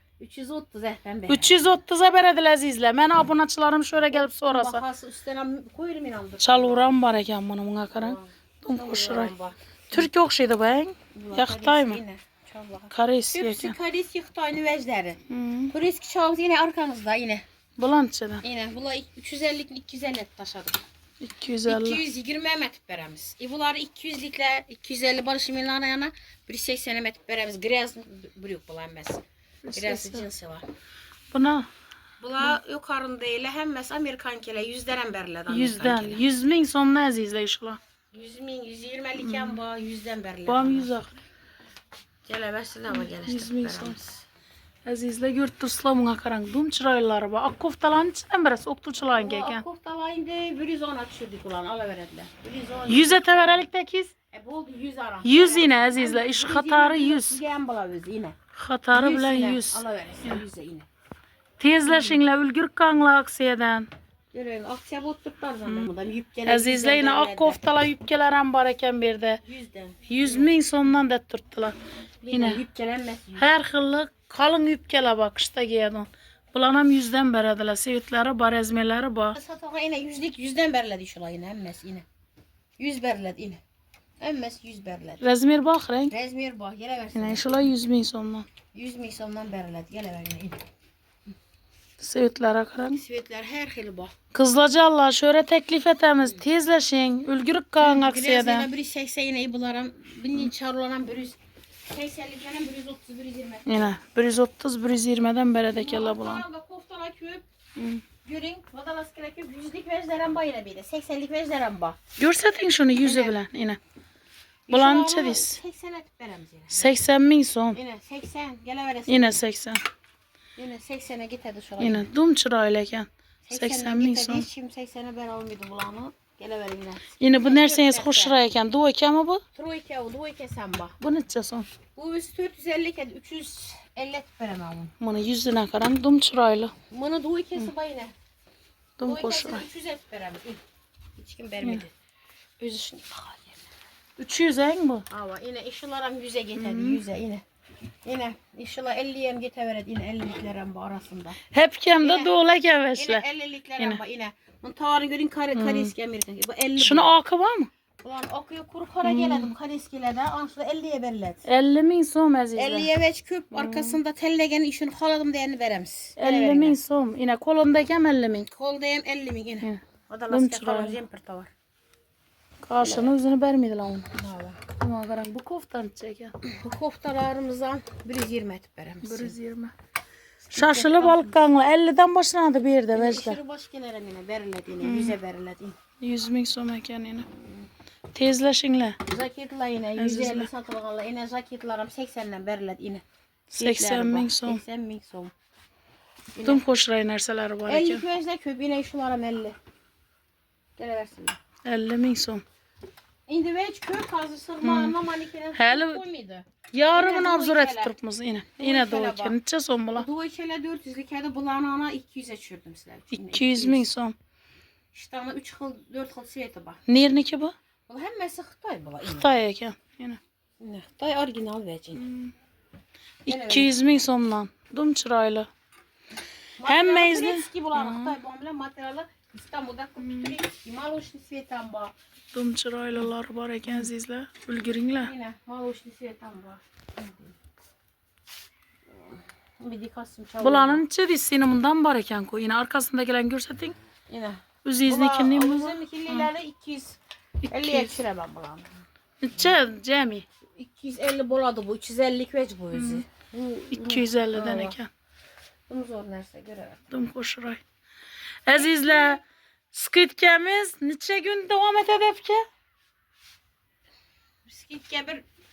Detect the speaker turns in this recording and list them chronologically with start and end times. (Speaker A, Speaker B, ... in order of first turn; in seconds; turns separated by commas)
Speaker A: 0.2-1.8, Speaker B: 1.3-4.8, Speaker A: 4.1-7.0, Speaker B: 6.4-9.3, Speaker A: 8.0-10.1, Speaker B: 9.9-12.0, Speaker A: 11.1-17.4, Speaker B: 12.9-13.8, Speaker B: 15.3-15.7, Speaker B: 17.8-18.4, Speaker A: 18.4-20.8, Speaker B: 21.2-22.0, Speaker A: 21.6-29.2, Speaker B: 29.6-30.2, Speaker A: 29.7-30.6, Speaker B: 31.3-31.7, Speaker A: 32.2-36.2, Speaker B: 35.5-37.8, Speaker A: 38.1-41.0, Speaker B: 39.2-39.6, Speaker B: 40.5-41.2, Speaker A: 42.2-44.1, Speaker B: 42.9-44.0, Speaker B: 44.8-49.6, Speaker A: 49.1-53.7, Speaker B: 52.9-54.1, Speaker A: 54.3-58.4, Speaker B: 55.2-57.4, Speaker B: 58.5-60.4, Speaker A: 58.9-60.9, Speaker B: 61.6-63.9, Speaker A: 61.8-62.2, Speaker A: 64.3-67.7, Speaker B: 66.5-69.4, Speaker A: 69.4-70.5, Speaker B: 70.0-71.8, Speaker A: 72.2-73.5, Speaker B: 72.3-72.6, Speaker B: 73.4-79.4, Speaker A: 79.3-82.0, Speaker A: 82.8-83.6, Speaker A: 84.2-85.2, Speaker B: 85.2-86.1, Speaker A: 86.1-87.6, Speaker B: 87.1-88.5, Speaker A: 88.7-90.6, Speaker B: 92.0-93.0, Speaker A: 92.9-94.1, Speaker B: 94.3-98.7, Speaker A: 97.8-103.9, Speaker B: 103.7-106.4, Speaker A: 105.7-107.4, Speaker B: 107.8-108.0, Speaker A: 108.2-112.0, Speaker B: 112.2-113.8, Speaker A: 113.0-113.4, Speaker A: 114.7-116.9, Speaker B: 114.7-115.6, Speaker B: 116.7-117.8, Speaker A: 117.7-119.4, Speaker B: 119.1-119.8, Speaker A: 120.6-122.1, Speaker B: 121.8-124.5, Speaker A: 123.5-128.4, Speaker B: 127.2-129.4, Speaker A: 129.5-130.9, Speaker B: 131.0-131.7, Speaker A: 131.9-134.9, Speaker B: 135.0-136.7, Speaker A: 136.9-138.1, Speaker B: 139.0-139.6, Speaker A: 139.0-140.6, Speaker A: 141.2-141.9, Speaker A: 142.6-143.6, Speaker B: 144.2-145.0, Speaker A: 145.1-147.4, Speaker B: 146.6-147.0, Speaker A: 148.0-151.4, Speaker B: 151.5-153.2, Speaker A: 152.0-152.3, Speaker A: 152.9-157.1, Speaker B: 155.5-155.9, Speaker B: 156.8-157.7, Speaker A: 158.0-161.4, Speaker B: 159.0-159.5, Speaker B: 161.4-162.9, Speaker A: 162.5-166.8, Speaker B: 163.5-164.0, Speaker B: 166.2-168.5, Speaker A: 168.5-171.5, Speaker B: 169.6-171.0, Speaker B: 172.7-174.1, Speaker A: 172.8-173.1, Speaker A: 174.1-174.6, Speaker B: 174.7-176.3, Speaker A: 176.4-179.3, Speaker B: 179.0-179.7, Speaker A: 180.5-181.4, Speaker B: 180.5-183.4, Speaker A: 182.9-185.8, Speaker B: 184.8-185.2, Speaker B: 186.0-187.3, Speaker B: 188.1-189.0, Speaker A: 189.1-193.0, Speaker B: 190.0-190.5, Speaker B: 193.5-194.6, Speaker A: 193.6-195.3, Speaker A: 196.3-196.6, Speaker B: 196.4-198.0, Speaker A: 197.7-199.6, Speaker A: 200.8-201.4, Speaker B: 201.6-202.4, Speaker A: 203.3-207.9, Speaker B: 204.6-204.9, Speaker B: 205.6-206.0, Speaker B: 206.7-210.1, Speaker A: 208.6-209.3, Speaker A: 209.9-213.9, Speaker B: 213.1-214.1, Speaker A: 214.9-216.8, Speaker B: 216.9-217.5, Speaker A: 217.9-219.3, Speaker B: 219.0-220.2, Speaker A: 220.6-222.1, Speaker B: 222.0-222.3, Speaker B: 223.2-225.5, Speaker A: 223.3-223.8, Speaker A: 226.6-231.9, Speaker B: 226.6-228.1, Speaker B: 230.0-230.3, Speaker B: 232.3-235.1, Speaker A: 235.0-237.3, Speaker A: 238.9-240.8, Speaker B: 240.4-243.7, Speaker A: 244.1-247.0, Speaker B: 244.6-246.3, Speaker B: 247.4-248.0, Speaker A: 247.5-248.7, Speaker B: 249.2-250.2, Speaker A: 250.6-254.8, Speaker B: 252.7-253.0, Speaker B: 253.7-254.9, Speaker A: 255.7-256.9, Speaker B: 256.9-257.6, Speaker B: 258.4-259.2, Speaker A: 258.5-259.2, Speaker B: 259.7-262.4, Speaker A: 264.4-265.2